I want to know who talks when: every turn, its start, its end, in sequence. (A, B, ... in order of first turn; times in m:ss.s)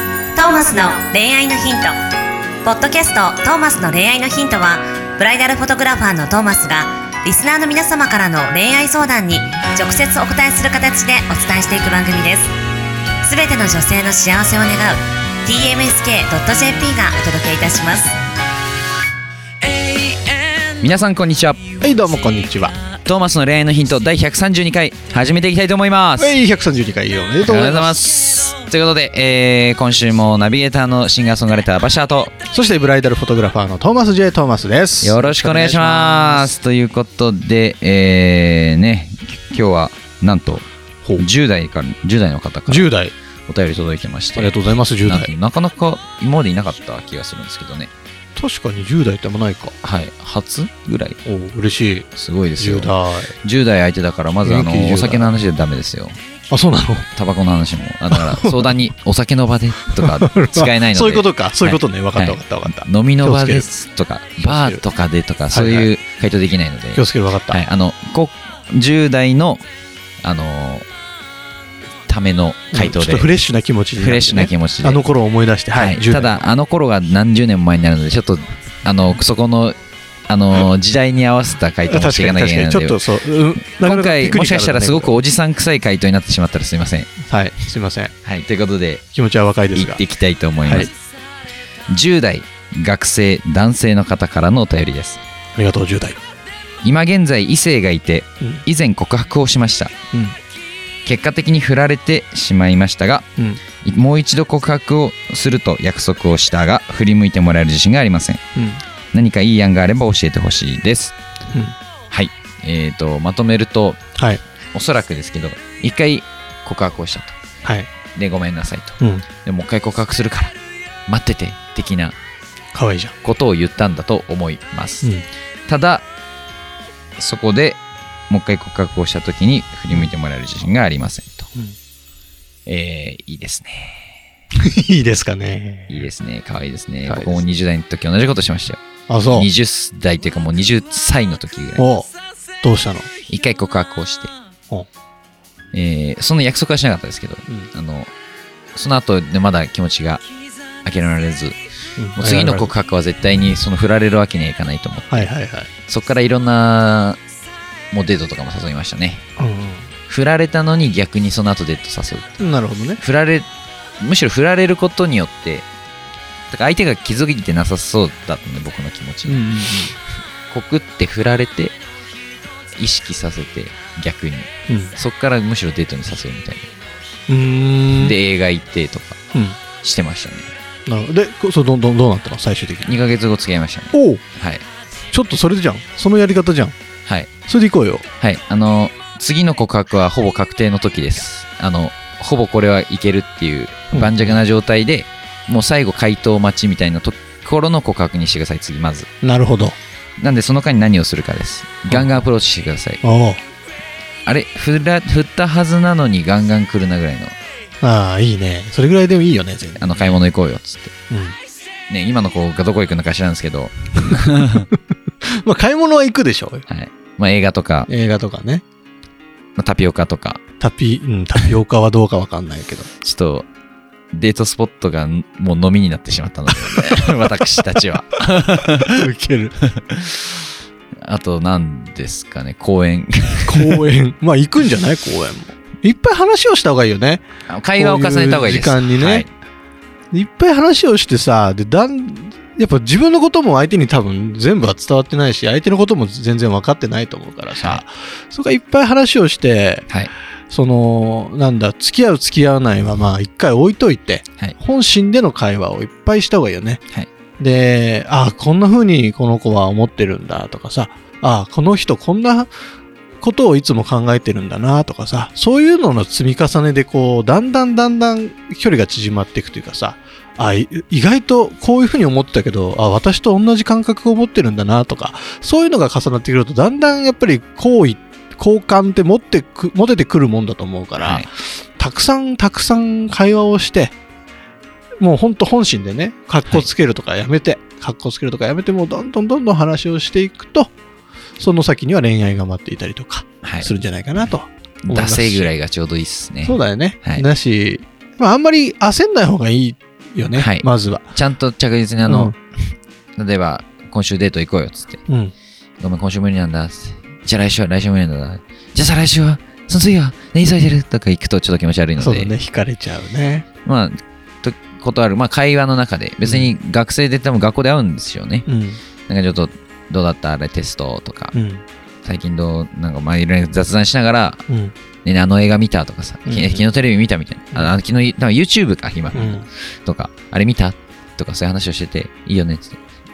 0:00.3-0:01.9 A
0:02.6-0:12.5 A
0:13.2-0:18.2 A
0:19.6-0:21.6 B
0:21.8-0:22.8 C
0:23.0-0:26.4 B
0:26.2-0:28.1 C
0:27.4-0:32.3 B
0:32.5-0:36.5 C
0:35.0-0:40.7 B
0:41.2-0:42.9 B
0:42.7-0:43.1 C
0:43.5-0:47.9 B
0:44.4-0:45.3 C
0:48.4-0:49.7 C
0:49.8-0:51.2 B
0:51.2-0:53.3 C
0:52.1-0:56.2 B
0:54.4-0:55.3 C
0:56.5-0:57.1 C
0:57.2-1:09.6 B
0:58.1-0:58.8 C
0:59.9-1:03.7 C
1:04.4-1:04.8 C
1:05.5-1:05.9 C
1:06.9-1:07.6 C
1:10.2-1:10.8 B
1:12.1-1:13.3 B
1:12.7-1:16.4 C
1:14.0-1:15.0 B
1:15.7-1:19.8 B
1:20.3-1:23.0 B
1:21.9-1:25.2 C
1:23.6-1:27.1 B
1:27.2-1:28.1 C
1:28.2-1:29.0 B
1:29.1-1:30.0 C
1:29.7-1:30.9 B
1:30.6-1:30.9 C
1:31.9-1:35.2 B
1:35.5-1:36.2 C
1:36.8-1:39.9 B
1:41.0-1:43.2 B
1:43.4-1:43.6 C
1:43.8-1:48.4 B
1:48.6-1:48.8 C
1:49.1-1:51.1 B
1:51.5-1:51.8 C
1:52.1-1:54.0 B
1:54.2-1:54.4 C
1:54.7-1:57.4 B
1:57.6-1:57.9 C
1:58.1-2:00.5 B
1:59.0-1:59.2 C
2:01.1-2:02.2 B
2:02.7-2:03.1 C
2:03.2-2:05.1 B
2:05.7-2:06.0 B
2:07.2-2:11.5 B
2:12.6-2:14.1 B
2:14.6-2:16.1 C
2:15.9-2:21.9 B
2:17.1-2:17.5 C
2:19.1-2:19.5 C
2:21.8-2:22.1 C
2:22.6-2:23.1 C
2:23.3-2:24.3 B
2:25.7-2:28.1 B
2:28.7-2:30.2 B
2:30.8-2:31.6 B
2:32.0-2:32.7 C
2:32.2-2:35.3 B
2:35.1-2:35.7 C
2:35.9-2:37.2 B
2:37.9-2:39.2 B
2:39.4-2:39.9 C
2:40.1-2:42.4 B
2:42.4-2:43.0 C
2:43.0-2:43.5 B
2:44.0-2:45.7 B
2:46.5-2:49.4 B
2:49.3-2:49.9 C
2:50.5-2:51.8 B
2:52.7-2:56.7 B
2:54.7-2:54.9 C
2:57.3-2:58.2 C
2:57.9-2:59.2 B
2:59.3-2:59.6 C
2:59.8-3:00.5 B
3:00.9-3:02.9 C
3:02.8-3:04.6 B
3:03.9-3:04.2 C
3:05.1-3:06.7 C
3:07.5-3:08.0 C
3:08.2-3:19.1 B
3:13.9-3:14.4 C
3:19.2-3:19.8 C
3:20.2-3:23.0 B
3:21.9-3:22.2 C
3:23.0-3:23.4 C
3:24.2-3:27.3 B
3:27.8-3:30.2 C
3:29.8-3:30.9 B
3:31.1-3:31.4 C
3:31.9-3:34.7 B
3:35.4-3:36.6 C
3:36.7-3:37.9 B
3:37.9-3:38.6 C
3:39.6-3:40.4 B
3:40.6-3:42.9 C
3:43.0-3:43.5 B
3:44.1-3:49.1 B
3:48.6-3:49.6 C
3:49.8-3:50.3 B
3:51.0-3:53.9 B
3:53.5-3:57.2 C
3:57.5-3:59.3 B
3:57.8-3:59.3 C
4:00.1-4:09.8 C
4:07.5-4:07.8 B
4:10.5-4:16.8 C
4:17.4-4:22.5 C
4:23.2-4:43.9 C
4:41.0-4:41.3 B
4:45.0-4:50.7 C
4:51.4-4:55.5 C
4:53.4-4:53.7 B
4:54.8-4:57.2 B
4:56.4-5:01.1 C
5:00.3-5:02.3 B
5:02.0-5:02.4 C
5:03.2-5:05.0 B
5:05.1-5:05.3 C
5:05.8-5:12.3 B
5:12.0-5:13.4 C
5:13.6-5:18.5 B
5:16.2-5:16.5 C
5:18.4-5:18.8 C
5:19.1-5:21.4 B
5:21.3-5:21.6 C
5:22.0-5:24.4 B
5:24.5-5:24.7 C
5:25.0-5:32.8 B
5:26.3-5:26.6 C
5:29.1-5:29.4 C